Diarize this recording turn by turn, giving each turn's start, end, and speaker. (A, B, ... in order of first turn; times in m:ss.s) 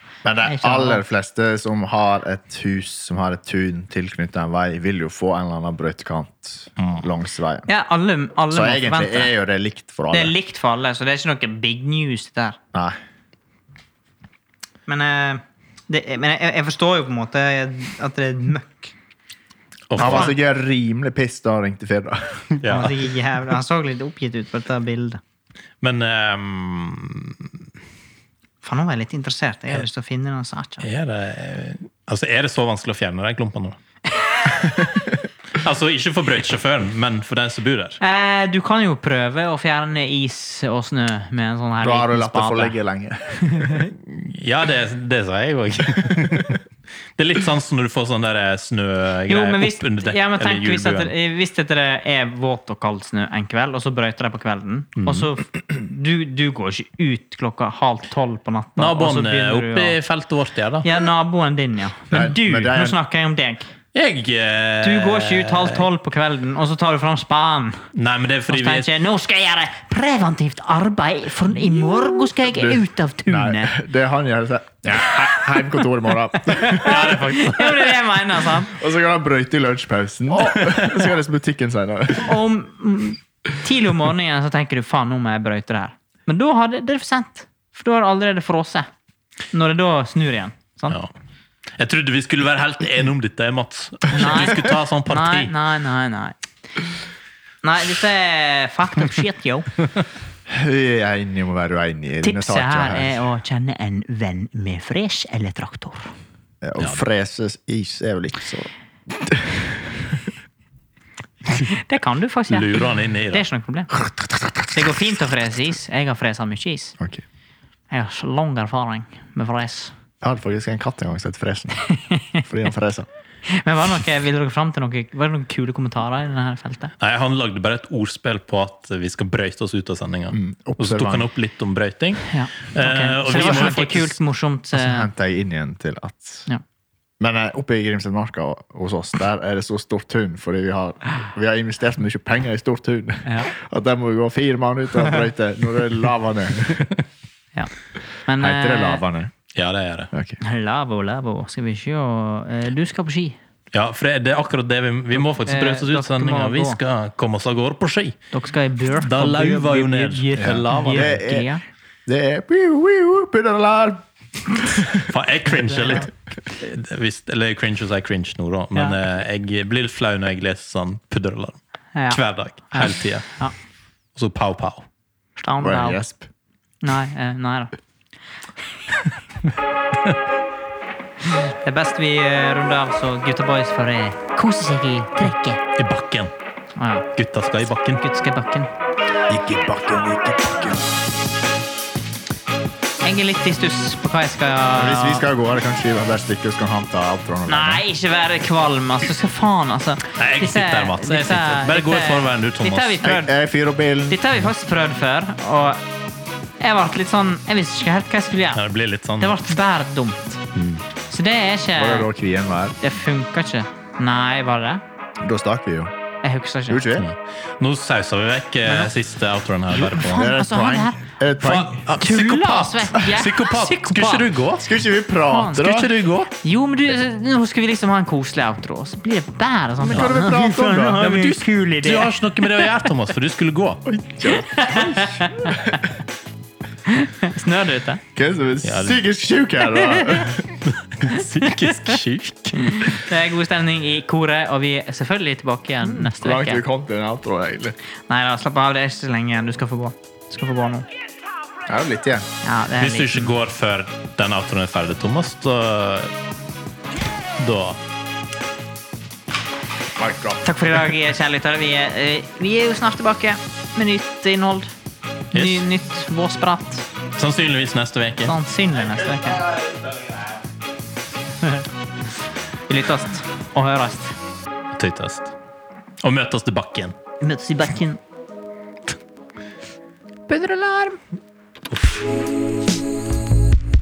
0:00.2-0:07.7 A
0:00.4-0:01.0 B
0:07.7-0:09.3 B
0:08.5-0:10.4 A
0:10.1-0:12.6 B
0:14.9-0:18.9 B
0:19.9-0:20.3 C
0:20.0-0:20.3 B
0:20.0-0:22.5 A
0:22.6-0:23.0 C
0:22.7-0:25.2 B
0:25.8-0:27.5 C
0:28.6-0:30.9 B
0:30.8-0:33.8 C
0:34.5-0:34.9 C
0:35.6-0:38.0 C
0:38.0-0:42.8 B
0:41.8-0:43.6 A
0:43.4-0:43.9 B
0:43.9-0:46.6 C
0:47.2-0:51.1 C
0:49.3-1:00.0 B
0:55.0-0:55.3 C
0:58.8-1:00.9 C
1:00.8-1:03.7 B
1:02.1-1:03.0 A
1:03.9-1:05.9 C
1:04.8-1:07.9 B
1:07.9-1:08.9 C
1:08.5-1:13.8 B
1:12.4-1:17.1 A
1:16.5-1:18.8 B
1:16.7-1:18.0 C
1:18.7-1:22.4 A
1:20.6-1:21.0 C
1:22.2-1:28.9 B
1:29.5-1:31.0 B
1:31.8-1:35.5 C
1:34.1-1:36.4 B
1:37.6-1:39.7 B
1:40.5-1:43.2 A
1:42.2-1:46.1 B
1:46.6-1:50.3 A
1:51.5-1:53.9 B
1:52.5-1:53.4 C
1:54.7-1:57.0 B
1:57.0-1:57.2 A
1:57.9-1:59.9 B
2:00.2-2:01.8 A
2:01.8-2:02.4 B
2:02.4-2:03.1 A
2:03.5-2:06.9 B
2:07.0-2:14.2 C
2:10.3-2:11.3 A
2:12.3-2:15.1 B
2:14.8-2:16.5 A
2:17.2-2:27.0 A
2:23.2-2:23.5 B
2:28.3-2:29.0 B
2:28.4-2:29.3 A
2:29.6-2:30.1 C
2:30.1-2:30.4 A
2:30.4-2:33.4 B
2:33.7-2:38.2 C
2:35.2-2:36.8 B
2:38.3-2:41.6 B
2:39.0-2:41.2 C
2:40.4-2:41.5 A
2:42.1-2:44.0 A
2:44.6-2:45.1 A
2:44.9-2:51.6 C
2:52.0-2:52.2 B
2:52.1-2:53.4 C
2:52.7-2:53.5 B
2:54.2-2:54.9 C
2:55.4-2:56.0 B
2:55.6-2:56.3 A
2:56.8-2:57.7 B
3:01.2-3:05.6 B
3:05.8-3:06.3 C
3:06.8-3:07.1 B
3:07.2-3:08.0 C
3:08.0-3:08.7 B
3:09.3-3:10.9 A
3:13.0-3:15.3 B
3:14.8-3:17.8 A
3:17.5-3:23.4 B
3:20.1-3:23.0 C
3:23.0-3:24.2 A
3:24.1-3:25.8 B
3:26.6-3:28.6 B
3:28.6-3:29.4 C
3:29.2-3:30.4 B
3:30.6-3:30.8 C
3:31.1-3:32.1 B
3:31.8-3:32.8 A
3:32.8-3:34.8 B
3:35.2-3:35.9 A
3:36.2-3:36.9 B
3:36.7-3:37.1 A
3:37.0-3:40.3 C
3:38.7-3:38.9 B
3:39.8-3:41.0 B
3:40.1-3:41.8 A
3:41.4-3:44.7 C
3:42.0-3:44.3 B
3:44.6-3:45.9 A
3:45.3-3:45.7 B
3:45.6-3:46.3 C
3:46.4-3:52.9 B
3:49.8-3:51.2 A
3:51.0-3:53.9 C
3:53.8-3:55.5 A
3:54.3-3:55.8 B
3:56.9-3:58.0 B
3:58.2-4:00.4 A
3:58.6-3:59.0 C
3:59.7-4:00.3 B
4:00.5-4:03.0 C
4:01.1-4:02.0 B
4:02.6-4:06.6 B
4:05.9-4:07.8 A
4:08.1-4:10.9 B
4:11.7-4:12.3 A
4:12.4-4:13.4 B
4:12.8-4:16.1 C
4:17.4-4:17.8 C
4:20.0-4:20.4 A
4:20.4-4:24.7 B
4:25.3-4:25.7 C
4:25.3-4:26.9 B
4:27.2-4:28.4 C
4:28.2-4:29.5 B
4:32.7-4:34.2 B
4:34.8-4:35.3 C
4:36.0-4:37.0 C
4:37.2-4:38.0 B
4:40.3-4:41.0 B
4:41.7-4:42.0 C